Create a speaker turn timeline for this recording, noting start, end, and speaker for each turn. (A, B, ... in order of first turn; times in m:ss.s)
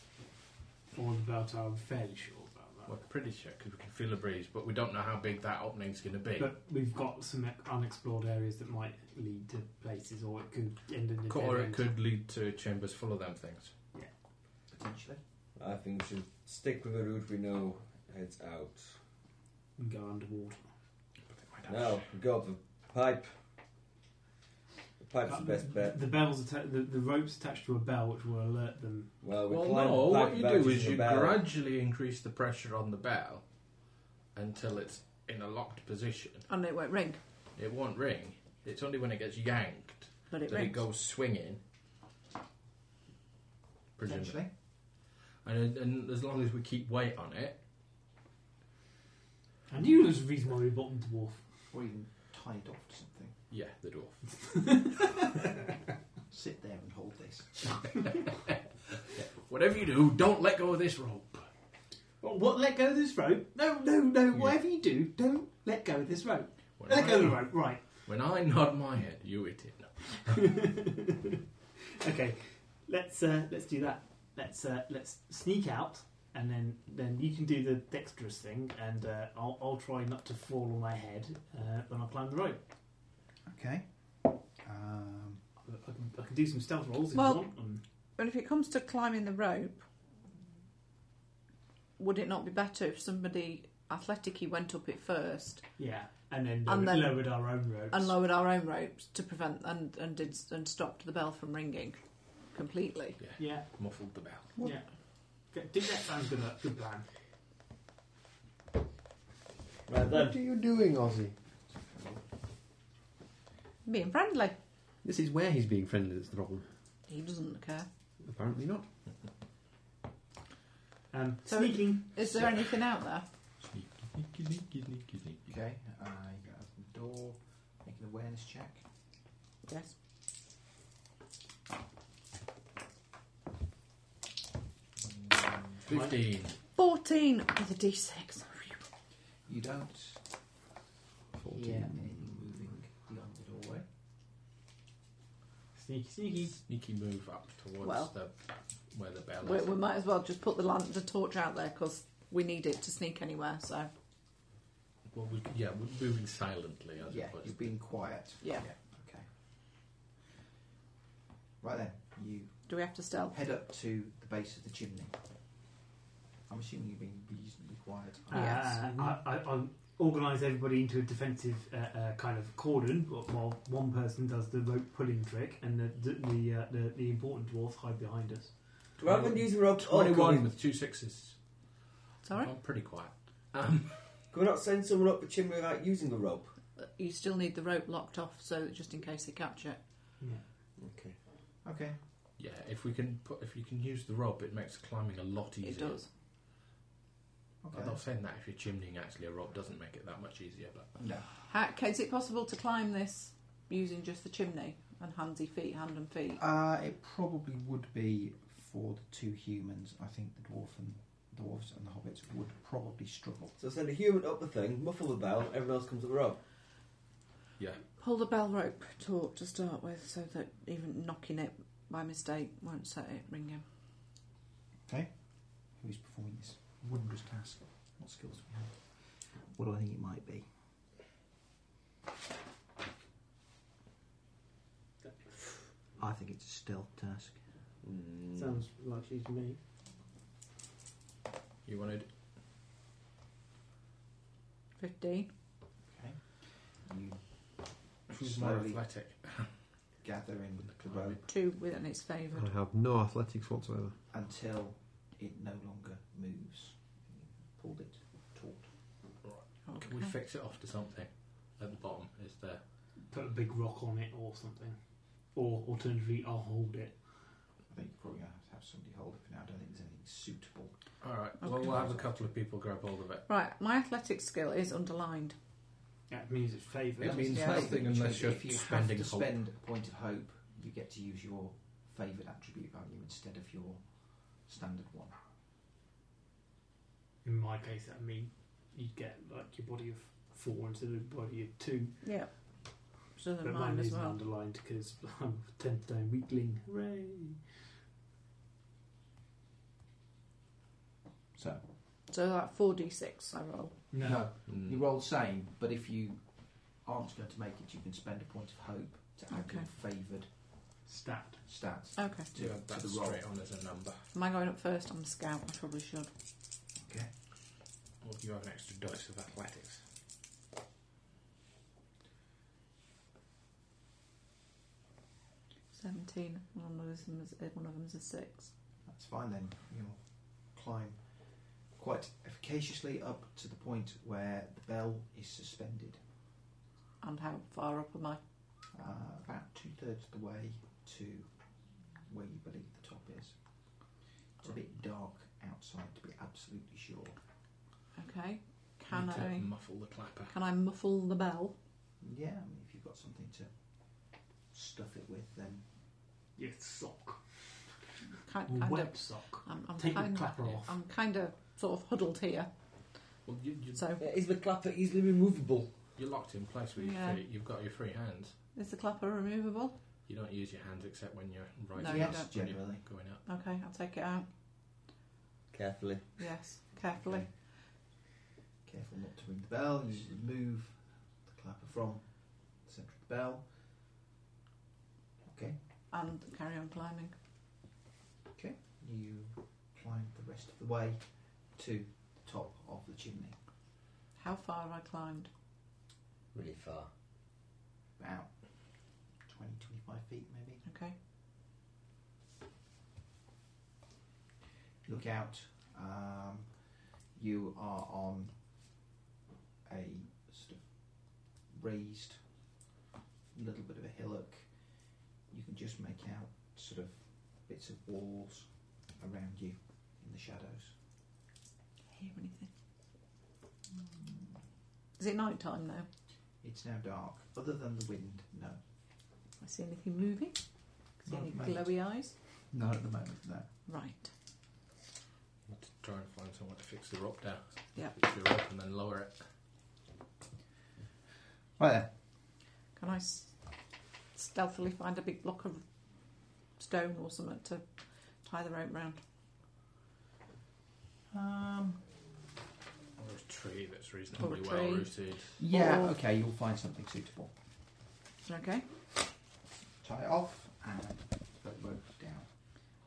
0:00.9-0:02.9 A
0:02.9-0:06.5 B
0:06.4-0:11.9 A
0:11.3-0:13.7 B
0:14.7-0:15.2 C
0:15.6-0:19.0 D
0:19.8-0:20.7 A
0:21.3-0:22.1 B
0:21.7-0:23.3 D
0:25.0-0:26.0 D
0:25.3-0:29.1 A
0:29.2-0:31.4 D
0:29.5-0:33.4 B
0:34.3-0:36.5 B
0:36.5-0:37.2 E
0:37.6-0:41.6 B
0:40.3-0:40.8 E
0:44.0-0:44.5 B
0:44.0-0:44.5 C
0:45.4-0:47.6 B
0:49.7-0:51.4 A
0:51.7-0:53.4 C
0:53.5-0:54.8 B
0:54.5-0:54.9 A
0:56.3-0:57.6 C
0:59.1-1:01.5 B
1:02.2-1:07.9 A
1:06.8-1:10.4 B
1:10.4-1:11.2 A
1:12.0-1:22.6 A
1:23.4-1:25.4 C
1:25.6-1:27.8 A
1:27.1-1:29.8 E
1:32.0-1:35.8 E
1:35.8-1:38.2 A
1:36.6-1:43.2 E
1:43.2-1:44.5 B
1:43.4-1:43.9 A
1:44.6-1:44.9 A
1:45.4-1:47.1 A
1:49.9-1:50.4 D
1:50.1-1:51.4 F
1:51.7-1:52.2 C
1:53.8-1:54.6 E
1:55.0-1:56.7 F
1:57.1-1:57.9 E
1:58.2-1:58.9 F
2:01.1-2:02.6 A
2:01.5-2:03.3 E
2:03.7-2:05.4 B
2:05.5-2:08.8 C
2:09.7-2:09.9 E
2:15.7-2:16.6 B
2:15.9-2:16.2 A
2:16.7-2:18.8 E
2:19.5-2:20.2 C
2:21.5-2:23.9 C
2:21.5-2:21.9 A
2:25.8-2:26.6 A
2:26.6-2:29.8 B
2:27.8-2:28.1 E
2:29.4-2:33.9 E
2:35.1-2:37.7 B
2:37.0-2:39.3 C
2:41.6-2:42.7 C
2:42.7-2:43.4 E
2:43.3-2:45.2 C
2:46.5-2:48.6 C
2:48.3-2:48.9 E
2:48.3-2:58.7 A
2:59.0-3:00.5 D
2:59.0-3:01.6 B
3:02.2-3:02.6 E
3:02.3-3:04.2 B
3:04.3-3:06.6 D
3:06.8-3:10.1 E
3:10.8-3:11.2 D
3:11.6-3:12.0 C
3:12.4-3:16.0 B
3:15.6-3:16.1 E
3:17.6-3:18.0 C
3:17.7-3:20.9 B
3:21.0-3:21.3 C
3:21.5-3:26.4 E
3:26.4-3:33.6 C
3:33.6-3:36.4 D
3:38.0-3:43.6 E
3:44.9-3:50.5 C
3:55.0-3:55.5 A
3:56.0-3:57.4 C
3:57.8-3:58.6 D
3:58.3-3:59.6 A
4:01.6-4:02.1 B
4:04.8-4:05.3 E
4:05.9-4:08.8 C
4:08.1-4:09.6 B
4:10.0-4:11.2 C
4:10.7-4:11.2 B
4:11.3-4:12.5 E
4:12.3-4:14.0 F
4:14.1-4:18.7 C
4:19.2-4:22.6 B
4:19.7-4:20.2 E
4:23.1-4:27.3 A
4:27.7-4:30.8 C
4:31.0-4:33.3 B
4:31.4-4:31.8 E
4:31.7-4:32.2 C
4:33.3-4:35.4 E
4:36.1-4:37.5 A
4:37.0-4:39.4 B
4:37.0-4:45.2 C
4:37.4-4:37.7 E
4:47.2-4:52.0 A
4:52.0-4:54.2 E
4:53.4-4:57.5 A
5:01.4-5:01.7 C
5:02.1-5:04.0 E
5:03.9-5:04.2 A
5:04.0-5:10.7 C
5:04.5-5:04.9 B
5:09.3-5:09.6 E
5:10.8-5:11.4 A
5:11.5-5:13.2 C
5:12.0-5:12.3 E
5:12.3-5:14.1 B
5:14.1-5:16.1 E
5:16.8-5:17.1 C
5:18.0-5:19.8 B
5:25.7-5:28.5 E
5:28.8-5:36.0 C
5:37.0-5:38.2 E
5:38.7-5:41.3 C
5:42.0-5:43.4 C
5:44.4-5:47.2 C
5:48.0-5:51.6 E
5:48.9-5:50.4 B
5:52.0-5:55.7 C
5:56.4-5:57.3 A
5:58.3-6:02.5 E
5:58.5-6:00.7 A
6:03.2-6:03.8 B
6:03.8-6:04.0 E
6:04.0-6:05.8 D
6:06.0-6:08.4 B
6:06.8-6:07.2 E
6:08.5-6:09.8 E
6:10.1-6:13.2 B
6:11.8-6:14.3 E
6:11.8-6:12.8 C
6:15.5-6:16.1 D
6:16.2-6:17.3 E
6:17.0-6:17.3 C
6:18.6-6:23.5 C
6:25.2-6:25.6 C
6:25.9-6:27.2 E
6:28.4-6:33.4 C
6:34.2-6:35.3 E
6:36.3-6:36.9 D
6:38.0-6:40.6 C
6:40.6-6:40.9 E
6:44.8-6:48.4 C
6:49.7-6:52.2 C
6:53.3-7:00.8 C
7:01.9-7:02.5 E
7:03.7-7:04.4 C
7:05.0-7:05.9 E
7:06.4-7:08.6 C
7:09.4-7:12.1 E
7:11.1-7:11.7 C
7:12.5-7:13.5 C
7:13.7-7:14.1 E
7:15.5-7:19.3 B
7:21.6-7:21.9 C
7:22.8-7:23.4 E
7:24.1-7:25.6 E
7:26.5-7:27.7 E
7:28.2-7:29.0 E
7:31.1-7:31.8 C
7:33.0-7:35.4 B
7:34.2-7:36.0 E
7:35.4-7:37.4 C
7:38.2-7:38.7 E
7:39.8-7:42.3 C